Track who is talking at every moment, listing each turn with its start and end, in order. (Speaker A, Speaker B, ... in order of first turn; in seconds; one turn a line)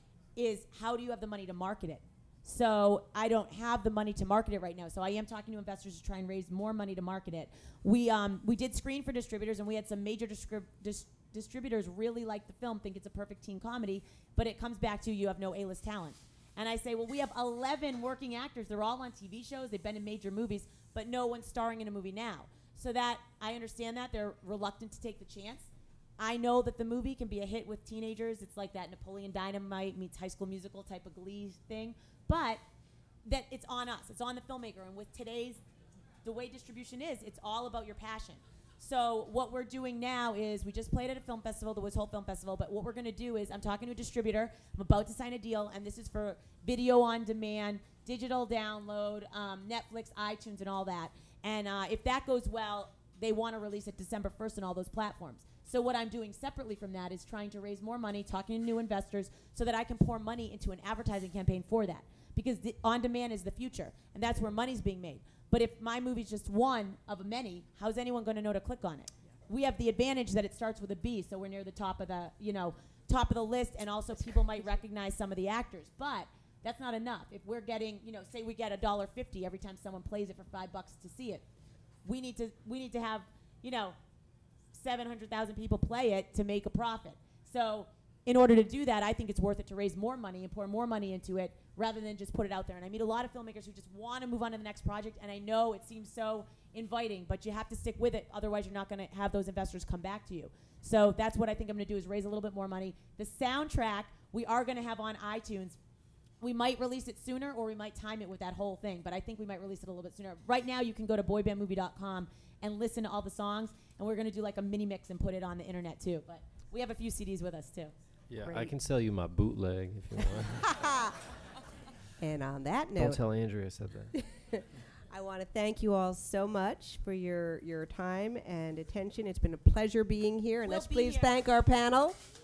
Speaker A: 0.3-32.6
Speaker A: 33.2-35.6
Speaker A: 36.2-81.4
Speaker A: 82.0-84.0
Speaker A: 84.7-105.8
Speaker A: 106.4-118.7
Speaker B: 118.3-120.7
Speaker C: 120.7-121.0
Speaker C: 122.2-123.2
Speaker B: 123.0-124.1
Speaker C: 124.2-132.2
Speaker A: 130.6-131.3